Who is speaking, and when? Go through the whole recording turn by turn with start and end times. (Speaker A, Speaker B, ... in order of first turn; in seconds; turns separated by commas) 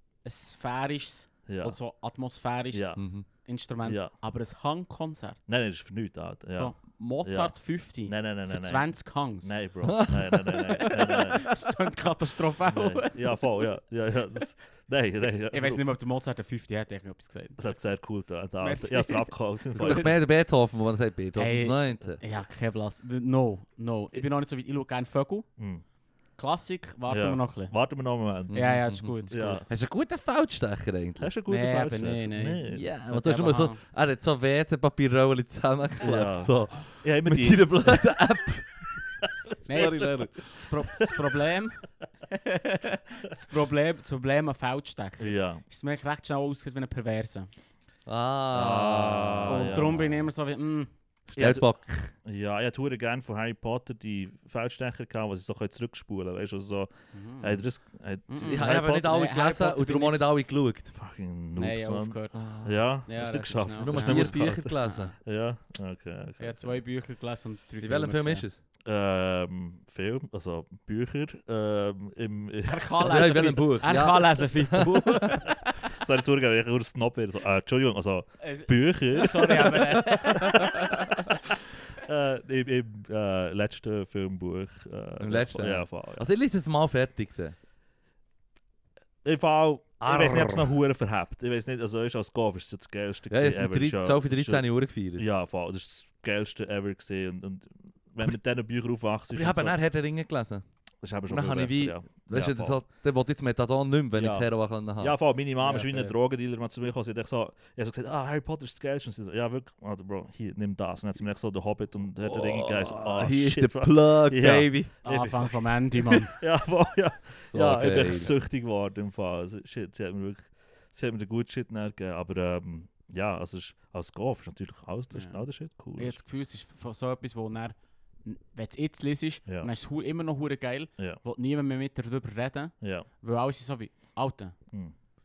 Speaker A: 0.2-5.4, Speaker B: 1.5-1.8, Speaker B: 2.7-3.0, Speaker C: 3.0-3.3, Speaker B: 3.9-4.1, Speaker B: 5.5-7.5, Speaker A: 6.5-9.6, Speaker B: 8.1-11.5, Speaker C: 9.8-10.3, Speaker A: 10.8-13.5, Speaker B: 12.7-15.8, Speaker A: 15.5-17.6, Speaker B: 17.6-20.2, Speaker A: 18.6-20.2, Speaker C: 19.8-22.2, Speaker A: 21.4-25.5, Speaker B: 25.6-25.8, Speaker A: 26.4-27.7, Speaker B: 27.1-29.7, Speaker C: 28.5-31.3, Speaker A: 28.5-29.6, Speaker B: 31.2-32.9, Speaker A: 31.5-33.8, Speaker C: 32.7-38.8, Speaker B: 36.0-38.1, Speaker C: 39.6-40.5, Speaker A: 39.6-47.5, Speaker B: 45.2-45.6, Speaker C: 48.1-50.1, Speaker B: 48.5-50.1, Speaker A: 49.5-50.9, Speaker C: 51.3-52.1, Speaker B: 51.4-51.7, Speaker B: 52.2-58.8, Speaker A: 57.1-57.6, Speaker A: 58.3-60.3, Speaker C: 58.4-60.9, Speaker B: 60.9-66.8, Speaker A: 61.6-62.4, Speaker C: 62.3-62.8, Speaker A: 63.1-65.1, Speaker C: 63.8-65.1, Speaker A: 66.4-68.5, Speaker C: 67.8-68.6, Speaker B: 68.9-73.5, Speaker A: 72.7-75.7, Speaker C: 73.0-75.1, Speaker B: 74.7-86.3, Speaker A: 78.4-81.2, Speaker C: 79.7-80.7, Speaker C: 85.2-87.5, Speaker B: 89.2-99.8, Speaker C: 90.0-90.7, Speaker C: 93.3-95.2, Speaker C: 99.3-100.6, Speaker B: 101.0-102.8, Speaker C: 101.3-105.2, Speaker B: 104.2-126.2, Speaker A: 105.6-106.1, Speaker C: 112.2-114.9, Speaker A: 115.0-116.3, Speaker C: 117.5-118.3, Speaker A: 125.1-134.6, Speaker B: 132.8-133.1